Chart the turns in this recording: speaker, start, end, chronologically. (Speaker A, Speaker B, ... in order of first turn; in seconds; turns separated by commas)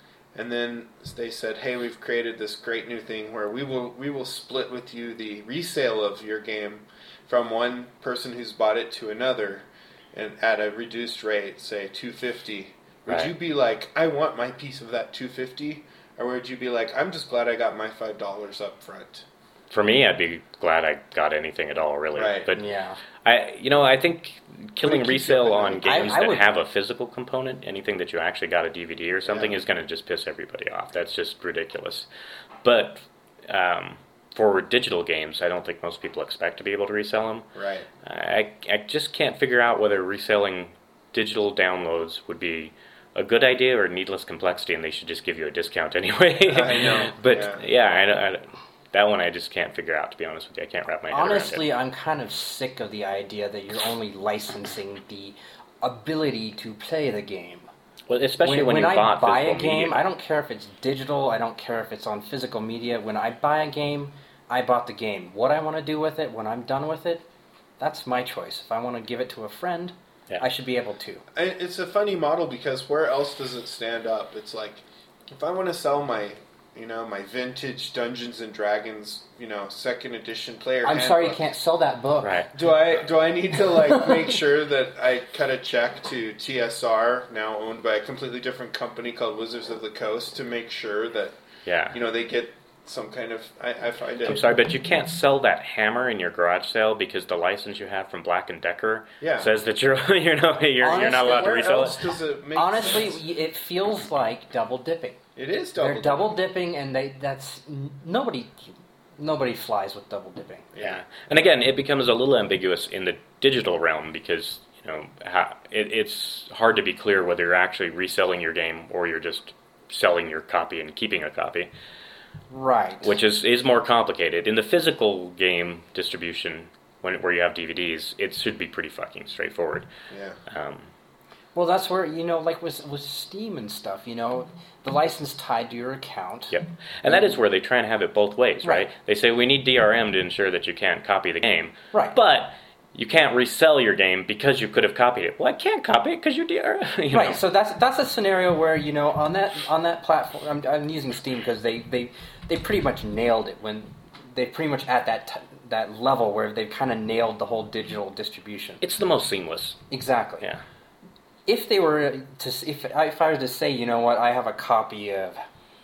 Speaker A: 0.3-19.2, Speaker B: 13.1-13.3, Speaker B: 19.7-22.6, Speaker A: 22.1-22.5, Speaker C: 22.5-23.0, Speaker B: 23.2-32.1, Speaker A: 24.8-26.2, Speaker C: 25.8-26.4, Speaker A: 29.2-29.6, Speaker B: 32.6-37.5, Speaker A: 37.5-37.9, Speaker B: 38.0-51.6, Speaker A: 46.5-47.6, Speaker C: 51.1-57.7, Speaker B: 58.1-60.0, Speaker C: 58.4-67.2, Speaker C: 67.8-71.2, Speaker A: 71.3-81.4, Speaker C: 80.8-82.5, Speaker B: 82.2-82.5, Speaker A: 82.5-91.4, Speaker B: 91.7-92.0, Speaker A: 91.9-94.5, Speaker B: 94.2-102.0, Speaker A: 99.2-99.5, Speaker C: 100.8-102.0, Speaker A: 100.9-103.2, Speaker C: 102.5-105.2, Speaker A: 105.3-106.3, Speaker C: 105.8-110.7, Speaker A: 110.7-111.0, Speaker B: 110.8-121.7, Speaker C: 122.5-123.2, Speaker B: 123.0-129.9, Speaker A: 130.1-130.4, Speaker B: 130.5-130.9, Speaker C: 131.5-137.4, Speaker B: 136.5-147.4, Speaker C: 138.6-138.9, Speaker C: 141.9-142.2, Speaker C: 147.1-158.8, Speaker B: 158.8-159.8, Speaker C: 159.9-160.4, Speaker C: 161.4-165.4